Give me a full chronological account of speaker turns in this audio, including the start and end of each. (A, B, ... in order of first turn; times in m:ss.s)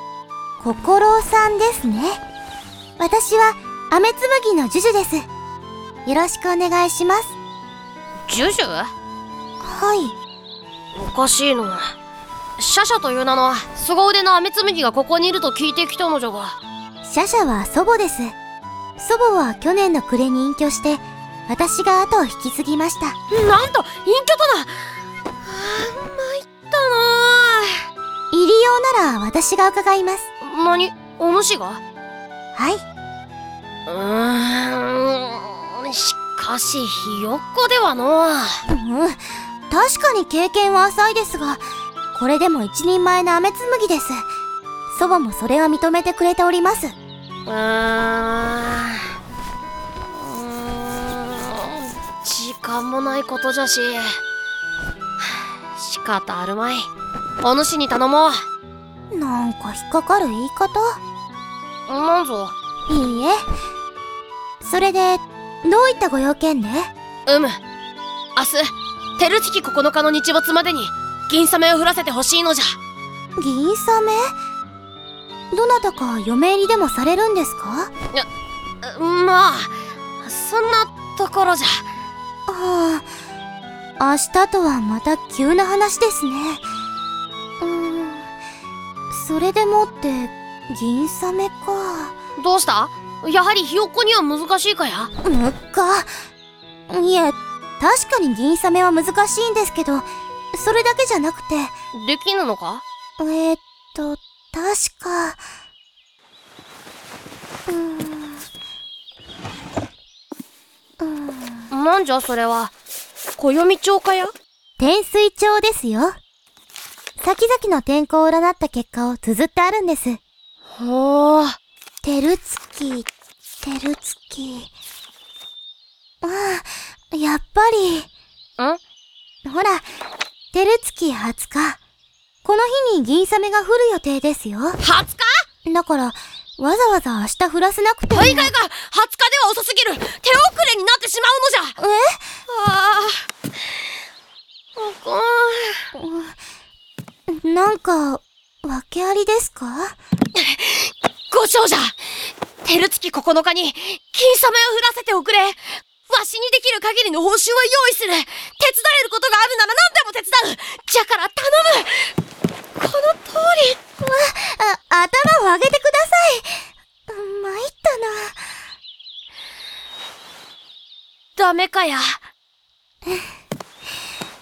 0:00.6-0:02.2 A
0:03.0-0:05.3 A
0:06.1-0:07.4 A
0:08.3-0:08.9 B
0:09.6-0:10.2 A
0:11.0-0:11.8 B
0:12.6-0:16.6 B
0:17.0-0:18.3 A
0:19.0-0:23.2 A
0:23.3-0:24.7 B
0:25.4-0:27.8 B
0:28.3-0:30.3 A
0:30.4-0:31.8 B
0:32.6-0:32.8 A
0:33.9-0:38.6 B
0:38.7-0:41.6 A
0:42.1-0:44.2 A
0:44.9-0:46.9 A
0:47.5-0:49.1 B
0:50.1-0:54.1 B
0:55.2-0:56.9 B
0:57.4-0:58.4 B
0:59.1-1:01.0 A
1:01.9-1:02.6 B
1:02.9-1:03.4 A
1:04.6-1:06.9 A
1:07.3-1:07.6 B
1:08.4-1:12.8 B
1:13.4-1:14.3 A
1:15.5-1:17.9 A
1:18.8-1:21.8 B
1:22.5-1:23.1 A
1:24.0-1:26.6 A
1:27.6-1:28.3 A
1:29.1-1:32.2 A
1:32.4-1:35.1 B
1:35.2-1:36.1 A
1:36.9-1:41.7 A
1:41.9-1:42.8 B
1:43.2-1:45.4 A
1:47.7-1:48.4 A
1:51.0-1:51.7 A
1:51.7-1:52.7 B
1:53.4-1:54.3 B
1:54.8-1:56.2 A
1:57.2-2:00.2 A
2:00.7-2:01.6 B
2:02.0-2:03.1 A
2:03.6-2:04.7 A
2:06.2-2:08.1 A
2:09.4-2:09.8 A
2:10.5-2:11.8 A
2:12.4-2:14.8 A
2:14.8-2:15.4 B
2:15.6-2:18.5 A
2:18.1-2:21.8 B
2:21.8-2:22.3 A
2:22.5-2:23.2 B
2:24.8-2:25.9 B
2:26.0-2:26.4 A
2:27.3-2:30.0 A
2:30.4-2:32.0 B
2:32.6-2:42.1 B
2:42.8-2:43.8 B
2:44.0-2:48.4 A
2:51.4-2:52.2 B